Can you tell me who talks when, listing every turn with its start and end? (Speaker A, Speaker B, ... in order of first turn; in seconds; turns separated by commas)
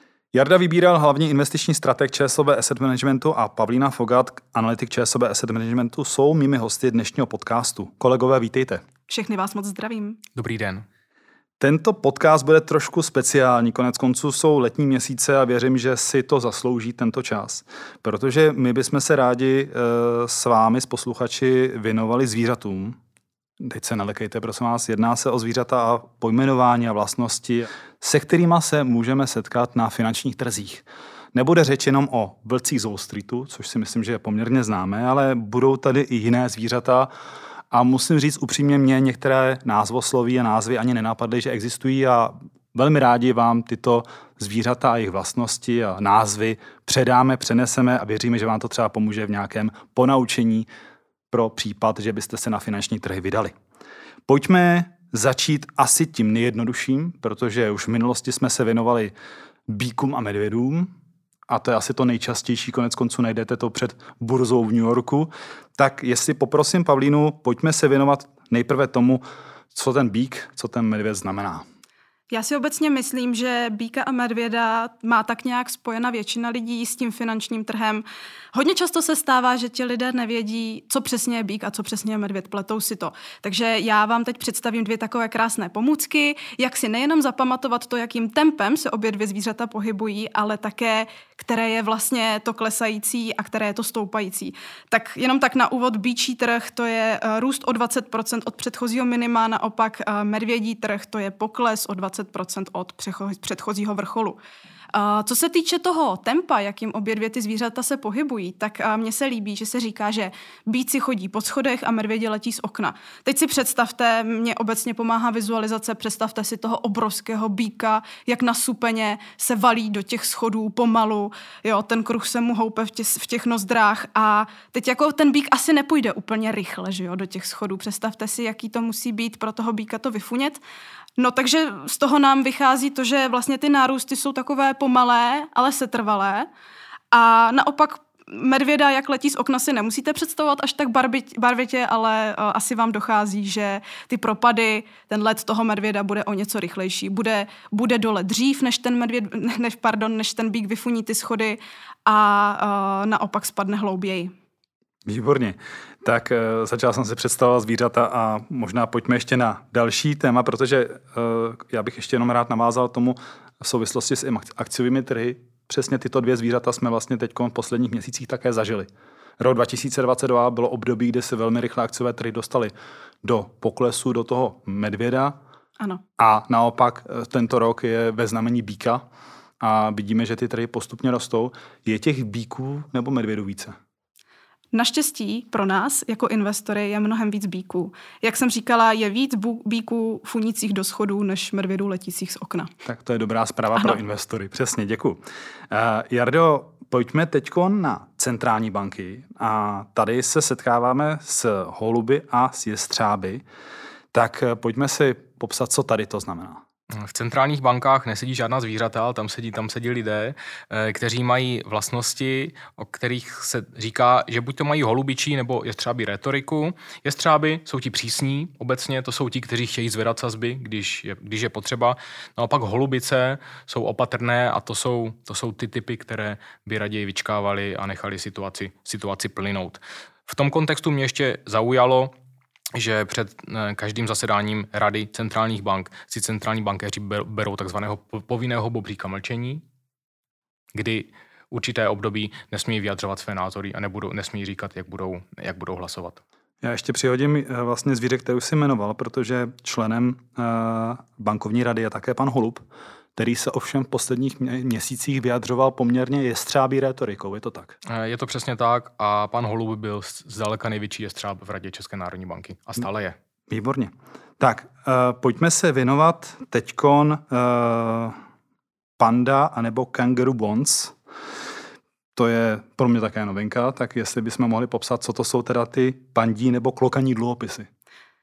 Speaker A: 0.3-8.8, Speaker B: 9.1-10.2, Speaker C: 10.3-10.9, Speaker A: 11.6-23.0, Speaker A: 23.6-37.1, Speaker A: 37.7-50.7, Speaker A: 51.3-53.5, Speaker A: 54.3-59.1, Speaker A: 59.7-60.9, Speaker A: 61.5-71.6, Speaker B: 72.3-104.4, Speaker B: 104.9-130.6, Speaker B: 131.2-136.5, Speaker B: 137.1-154.3, Speaker A: 155.1-175.4, Speaker A: 176.2-179.0, Speaker A: 179.6-183.8, Speaker B: 184.7-192.7, Speaker A: 192.8-203.4, Speaker A: 204.1-206.6, Speaker C: 206.9-232.1, Speaker C: 232.8-239.6, Speaker C: 240.8-246.2, Speaker A: 246.6-252.7, Speaker A: 253.2-257.8, Speaker C: 257.9-263.2, Speaker A: 263.5-268.1, Speaker A: 269.0-270.9, Speaker A: 272.2-277.7